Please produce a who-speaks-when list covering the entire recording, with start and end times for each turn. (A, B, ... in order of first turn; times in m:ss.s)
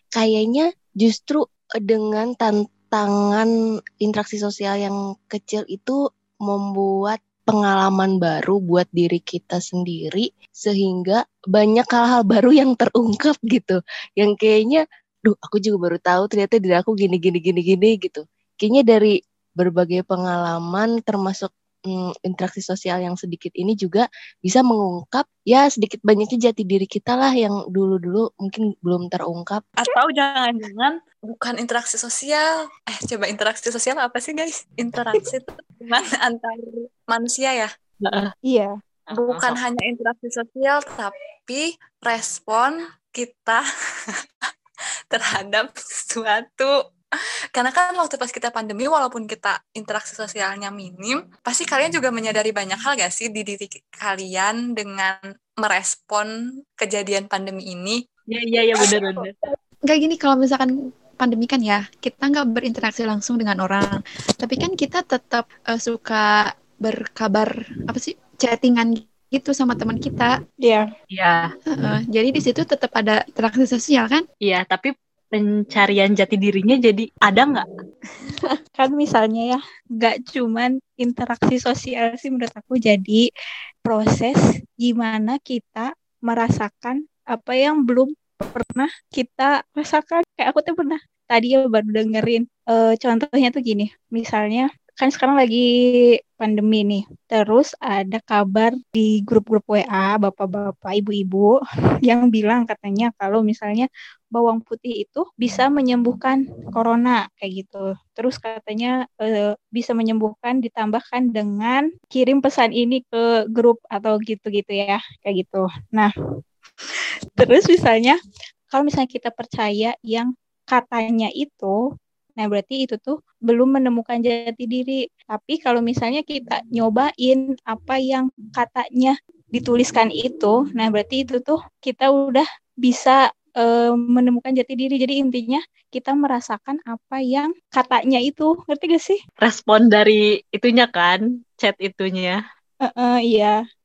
0:00.1-0:03.5 A
0:04.0-0:06.0 A
0:06.5-0:29.6 A
0:29.8-0:37.7 B
0:38.0-0:38.3 C
0:39.1-0:39.6 C
0:39.2-0:43.6 B
0:45.1-0:46.7 B
0:47.5-0:58.0 B
0:58.3-0:59.3 C
0:59.8-1:10.3 D
1:10.6-1:10.9 E
1:11.1-1:11.5 C
1:11.7-1:14.2 D
1:14.4-1:17.6 C
1:18.8-1:23.2 E
1:23.8-1:35.6 E
1:36.4-1:41.5 E
1:42.0-1:56.1 E
1:57.0-1:58.2 E
1:58.7-2:01.7 E
2:02.4-2:19.2 E
2:19.4-2:22.4 C
2:22.8-2:23.6 E